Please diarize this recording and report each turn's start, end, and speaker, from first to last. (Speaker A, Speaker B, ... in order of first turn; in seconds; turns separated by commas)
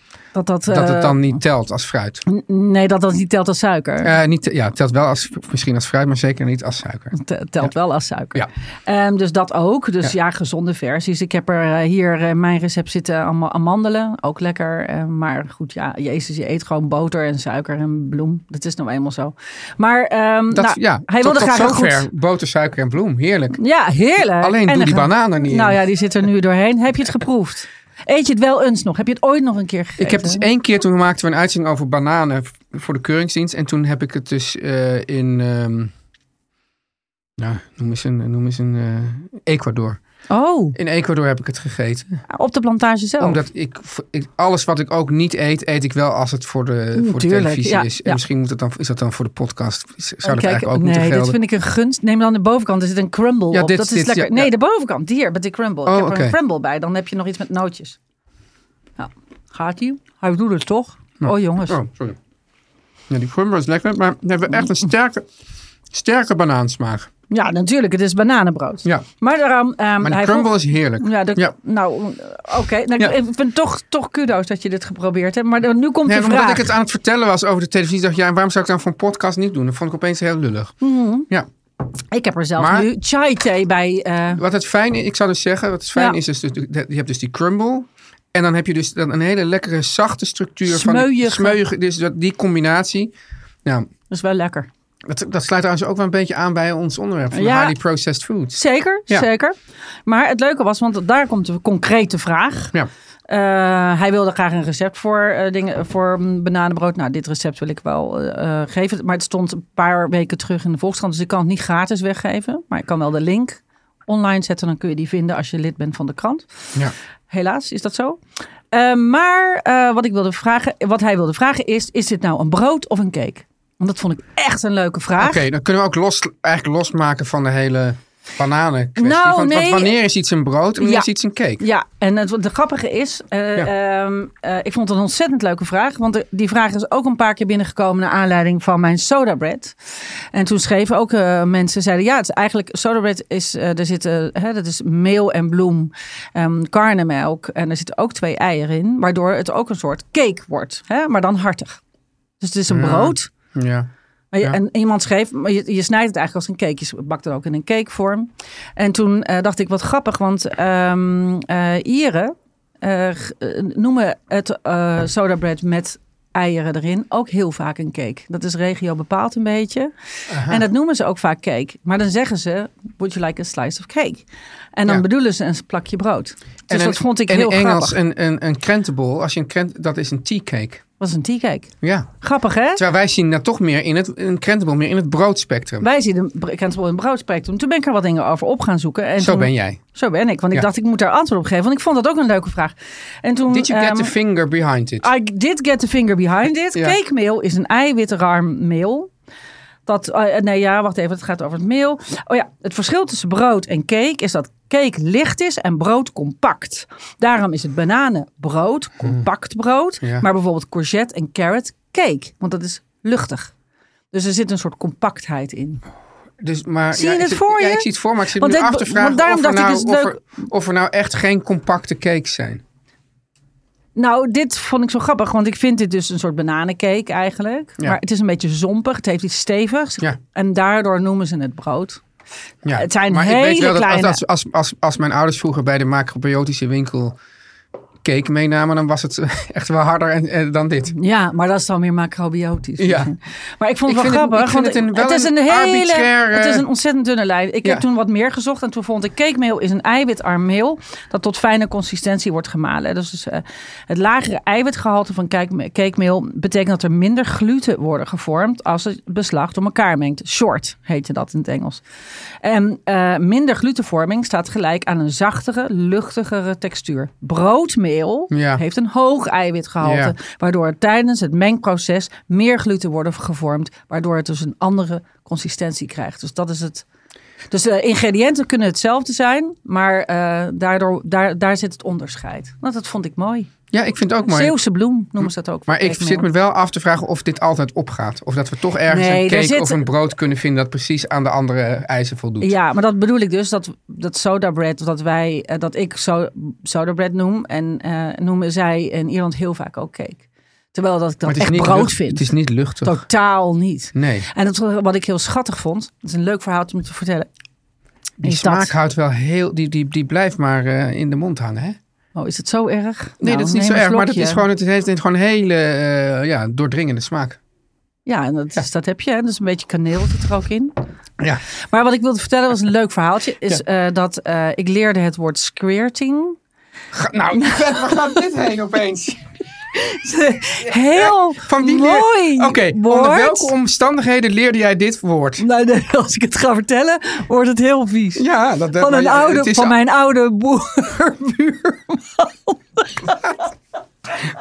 Speaker A: 0.3-1.4, Speaker B: 0.7-2.2, Speaker A: 2.3-4.1, Speaker B: 4.0-7.7, Speaker A: 7.1-22.1, Speaker B: 20.5-23.6, Speaker A: 23.6-30.4, Speaker B: 24.3-25.8, Speaker B: 30.0-35.9, Speaker B: 37.4-40.0, Speaker A: 40.3-40.8, Speaker B: 40.7-42.2, Speaker A: 42.3-43.4, Speaker B: 43.2-51.4, Speaker A: 47.0-48.2, Speaker A: 50.2-58.0, Speaker B: 53.5-54.5, Speaker B: 55.9-56.4, Speaker A: 59.0-61.8, Speaker B: 61.2-62.2, Speaker B: 63.1-65.3, Speaker B: 65.9-67.1, Speaker A: 67.3-76.7, Speaker B: 70.0-71.5, Speaker B: 76.0-80.8, Speaker A: 80.8-81.3, Speaker A: 82.1-84.4, Speaker B: 82.6-82.9, Speaker B: 84.4-93.1, Speaker A: 90.7-91.6, Speaker A: 94.1-94.7, Speaker B: 95.1-99.3, Speaker A: 97.3-97.8, Speaker A: 98.5-102.7, Speaker A: 103.3-116.5, Speaker A: 117.3-118.2, Speaker A: 118.7-125.4, Speaker B: 125.2-131.7, Speaker A: 129.0-130.0, Speaker A: 130.8-139.8, Speaker A: 140.3-151.8, Speaker A: 152.4-153.3, Speaker B: 152.7-153.9, Speaker A: 154.3-169.9, Speaker B: 170.3-170.6, Speaker A: 170.4-178.0, Speaker B: 176.7-180.8, Speaker A: 181.0-182.8, Speaker B: 181.8-182.1, Speaker B: 182.8-185.9, Speaker A: 185.8-194.1, Speaker B: 189.2-189.8, Speaker B: 193.5-195.1, Speaker A: 195.0-199.1, Speaker A: 199.9-213.5, Speaker A: 214.1-215.8, Speaker B: 216.4-222.6, Speaker A: 216.9-220.2, Speaker A: 224.0-232.0, Speaker B: 232.6-237.2, Speaker A: 232.7-234.2, Speaker B: 238.0-240.9, Speaker A: 240.9-261.8, Speaker B: 242.8-243.1, Speaker B: 243.9-246.7, Speaker A: 262.4-276.9, Speaker B: 268.3-268.6, Speaker B: 269.8-270.1, Speaker A: 277.5-283.5, Speaker B: 283.7-284.6, Speaker A: 284.2-286.3, Speaker B: 285.2-292.5, Speaker A: 288.9-289.9, Speaker A: 292.4-302.3, Speaker B: 301.3-303.0, Speaker A: 302.8-307.3, Speaker B: 303.9-304.3, Speaker B: 308.2-311.8, Speaker A: 308.2-308.7, Speaker A: 312.1-314.4, Speaker B: 313.2-317.4, Speaker A: 318.1-320.8, Speaker A: 321.7-326.4, Speaker B: 326.9-329.2, Speaker A: 327.4-328.2, Speaker A: 329.7-333.5, Speaker B: 330.6-335.4, Speaker A: 335.4-338.2, Speaker B: 338.1-339.8, Speaker A: 338.8-343.4